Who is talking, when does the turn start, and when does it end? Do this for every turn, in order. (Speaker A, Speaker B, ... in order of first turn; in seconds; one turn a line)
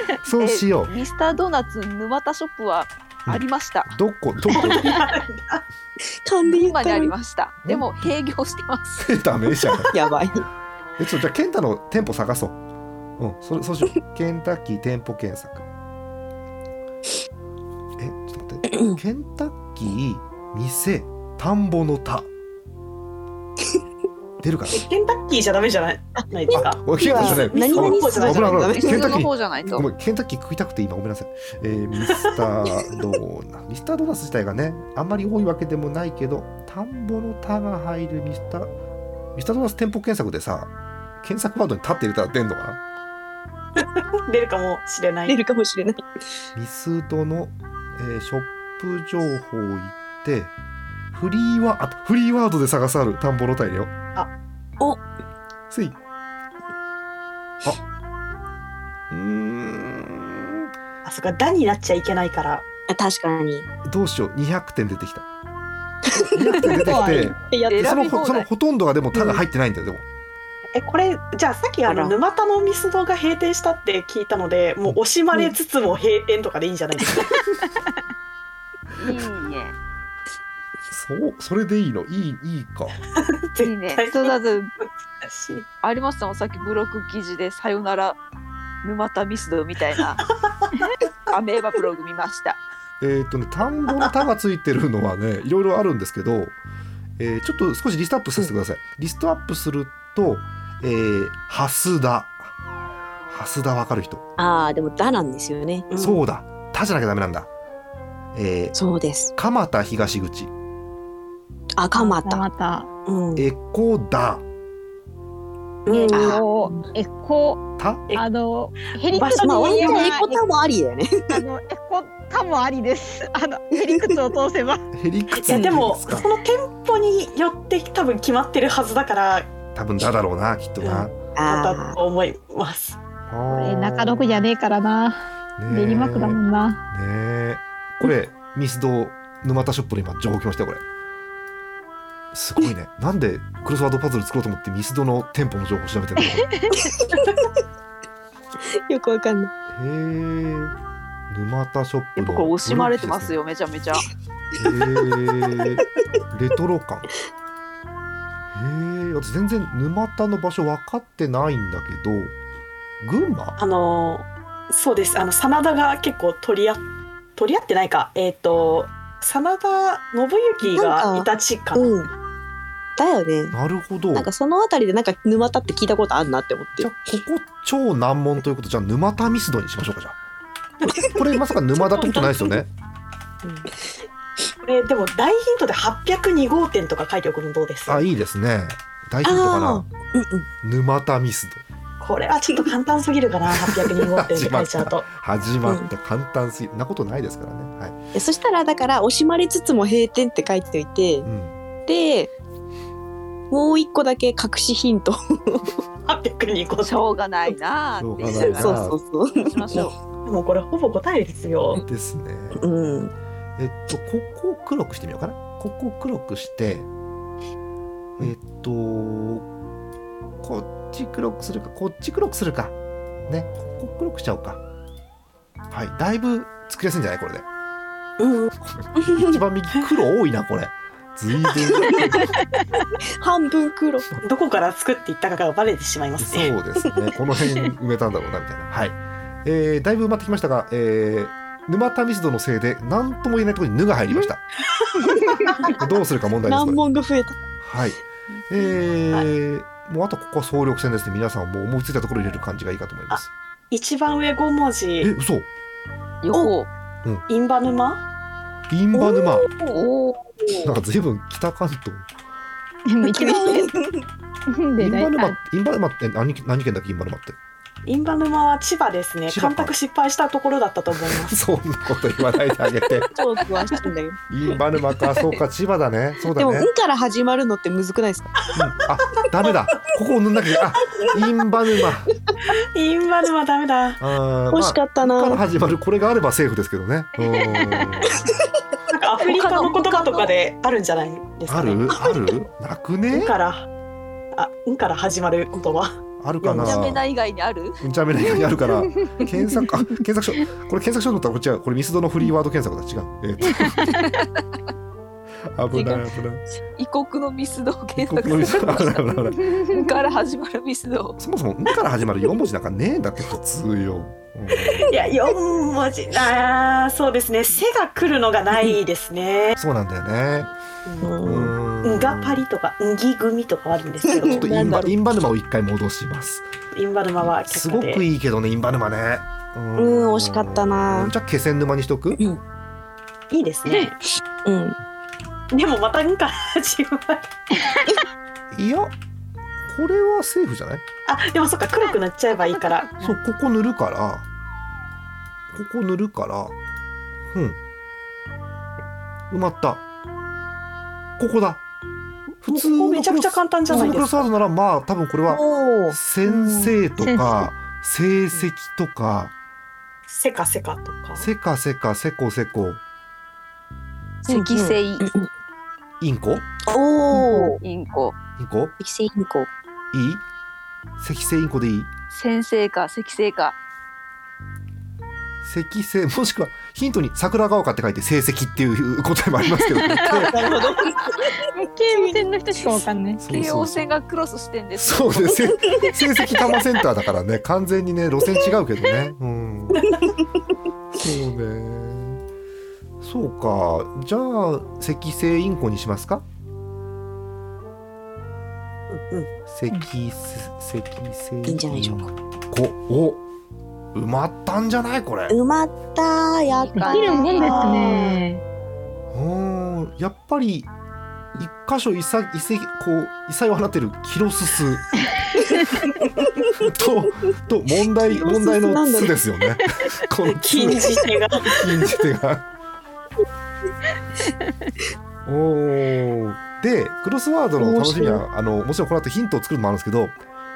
Speaker A: 0.2-0.9
Speaker B: 0.4-4.0
Speaker A: 3.2-4.9
Speaker C: 4.5-5.6
Speaker D: 6.2-7.1
Speaker B: 6.4-9.2
Speaker A: 7.6-8.1
Speaker A: 9.0-9.9
Speaker D: 9.9-10.4
Speaker A: 11.0-12.6
Speaker A: 13.2-15.6
Speaker A: 18.0-22.3
Speaker D: 18.7-19.0
Speaker A: 24.4-24.8
Speaker C: 24.8-28.6
Speaker D: 26.2-29.8
Speaker A: 26.5-38.7
Speaker B: 28.7-29.8
Speaker A: 39.4-42.8
Speaker C: 43.8-45.4
Speaker D: 45.3-46.1
Speaker A: 46.5-50.5
Speaker A: 51.1-53.9
Speaker A: 55.7-56.0
Speaker A: 59.1-60.7
Speaker C: 61.0-62.6
Speaker D: 62.9-63.7
Speaker A: 63.8-65.2
Speaker A: 66.3-70.0
Speaker E: 66.8-67.4
Speaker D: 67.4-67.9
Speaker B: 67.6-68.5
Speaker D: 69.1-69.4
Speaker C: 70.7-77.3
Speaker D: 71.8-72.1
Speaker B: 79.0-79.7
Speaker A: 80.9-83.0
Speaker C: 83.2-84.3
Speaker B: 83.6-84.7
Speaker C: 85.2-85.7
Speaker B: 85.8-88.2
Speaker B: 88.8-90.2
Speaker B: 91.3-92.6
Speaker A: 93.0-96.5
Speaker A: 97.2-102.5
Speaker A: 103.3-104.2
Speaker D: 104.4-105.9
Speaker A: 106.0-107.5
Speaker A: 108.3-108.8
Speaker D: 108.7-109.3
Speaker A: 109.3-110.5
Speaker D: 111.7-112.5
Speaker E: 111.9-112.9
Speaker D: 113.0-113.5
Speaker A: 113.3-114.4
Speaker C: 115.8-116.4
Speaker E: 115.9-120.4
Speaker D: 116.1-116.7
Speaker A: 117.8-118.0
Speaker C: 118.8-120.1
Speaker D: 119.4-121.4
Speaker E: 121.3-124.8
Speaker D: 123.8-124.2
Speaker A: 124.9-126.3
Speaker C: 125.3-129.5
Speaker A: 129.7-131.2
Speaker C: 130.8-133.0
Speaker D: 131.3-132.0
Speaker A: 133.3-134.5
Speaker E: 133.5-136.8
Speaker A: 135.6-140.8
Speaker A: 142.3-146.5
Speaker E: 146.4-146.9
Speaker D: 148.7-149.5
Speaker A: 149.7-150.7
Speaker A: 151.3-153.4
Speaker B: 152.2-154.1
Speaker A: 154.6-157.1
Speaker A: 158.5-162.3
Speaker A: 163.0-163.6
Speaker C: 163.6-166.8
Speaker C: 167.4-172.0
Speaker D: 170.6-172.1
Speaker D: 173.0-173.6
Speaker A: 173.5-174.3
Speaker D: 174.1-176.9
Speaker A: 176.8-180.2
Speaker A: 180.9-182.7
Speaker C: 181.8-182.6
Speaker C: 184.6-188.0
Speaker A: 187.9-189.9
Speaker D: 189.2-190.5
Speaker A: 190.6-191.6
Speaker C: 192.0-195.1
Speaker A: 194.0-198.0
Speaker D: 195.6-195.9
Speaker D: 198.1-201.3
Speaker A: 201.2-201.6
Speaker D: 201.9-202.3
Speaker D: 203.5-205.8
Speaker C: 206.1-207.0
Speaker B: 206.8-209.9
Speaker A: 208.0-209.0
Speaker D: 208.3-209.9
Speaker C: 210.2-211.8
Speaker A: 211.8-212.7
Speaker D: 212.5-213.1
Speaker A: 213.6-216.9
Speaker A: 218.2-219.5
Speaker A: 220.4-222.7
Speaker A: 223.3-224.6
Speaker A: 225.7-227.4
Speaker D: 228.2-229.4
Speaker A: 228.6-232.3
Speaker D: 233.2-234.0
Speaker C: 234.2-236.5
Speaker A: 236.2-244.4
Speaker D: 245.3-245.7
Speaker A: 245.7-246.8
Speaker D: 246.4-247.4
Speaker A: 247.6-253.3
Speaker C: 253.1-255.1
Speaker A: 255.0-255.5
Speaker B: 256.2-256.7
Speaker C: 257.3-258.1
Speaker A: 258.7-259.5
Speaker D: 258.9-259.8
Speaker B: 259.6-260.7
Speaker A: 260.6-262.0
Speaker E: 262.9-263.7
Speaker D: 263.0-264.0
Speaker E: 264.5-265.4
Speaker A: 264.8-267.4
Speaker C: 267.9-271.4
Speaker A: 269.3-269.7
Speaker A: 271.1-273.1
Speaker D: 273.1-274.2
Speaker A: 274.3-276.7
Speaker D: 276.4-278.3
Speaker A: 278.5-282.1
Speaker C: 282.7-284.0
Speaker A: 284.0-288.2
Speaker D: 284.5-285.4
Speaker C: 288.9-292.3
Speaker B: 289.2-290.3
Speaker A: 291.5-293.3
Speaker C: 293.1-293.7
Speaker C: 294.3-296.8
Speaker A: 296.2-297.1
Speaker B: 296.6-298.5
Speaker A: 297.8-304.0
Speaker B: 303.9-304.3
Speaker A: 305.5-306.4
Speaker B: 305.7-306.1
Speaker B: 306.8-311.2
Speaker A: 307.9-309.5
Speaker E: 309.7-310.1
Speaker A: 311.2-315.2
Speaker C: 314.9-319.6
Speaker A: 319.6-320.5
Speaker C: 320.9-321.2
Speaker D: 321.0-321.5
Speaker A: 321.2-322.4
Speaker C: 321.8-324.5
Speaker D: 324.0-324.9
Speaker A: 324.4-326.4
Speaker C: 326.7-328.0
Speaker A: 327.2-332.2
Speaker D: 329.8-331.1
Speaker C: 333.3-334.0
Speaker D: 334.4-334.8
Speaker C: 335.5-337.3
Speaker A: 338.5-338.9
Speaker A: 339.7-340.8
Speaker C: 341.1-342.9
Speaker E: 342.5-343.1
Speaker A: 343.0-344.2
Speaker A: 345.5-346.5
Speaker A: 347.3-347.6
Speaker A: 349.3-349.8
Speaker A: 351.2-351.6
Speaker A: 352.4-359.3
Speaker C: 352.5-354.3
Speaker D: 355.3-356.0
Speaker E: 356.2-357.4
Speaker C: 360.1-361.3
Speaker A: 361.2-362.8
Speaker B: 364.2-365.1
Speaker D: 364.2-365.3
Speaker A: 366.0-366.4
Speaker D: 366.6-367.6
Speaker B: 367.1-368.2
Speaker A: 368.4-368.7
Speaker D: 368.8-369.5
Speaker A: 369.9-370.2
Speaker A: 371.0-371.9
Speaker B: 372.1-373.6
Speaker A: 375.4-380.3
Speaker E: 379.4-380.8
Speaker D: 380.1-381.1
Speaker E: 381.5-383.2
Speaker A: 383.2-383.9
Speaker B: 383.2-385.6
Speaker A: 384.7-389.8
Speaker C: 389.7-390.1
Speaker A: 390.9-392.2
Speaker A: 393.0-396.2
Speaker C: 398.9-399.3
Speaker A: 399.5-403.2
Speaker D: 401.4-402.1
Speaker A: 403.9-405.4
Speaker D: 405.3-408.0
Speaker B: 406.5-407.6
Speaker E: 406.7-408.4
Speaker C: 407.4-408.2
Speaker A: 409.1-410.7
Speaker A: 411.4-414.9
Speaker A: 416.6-422.4
Speaker D: 417.9-419.2
Speaker C: 420.4-421.6
Speaker A: 425.2-430.2
Speaker D: 427.6-428.2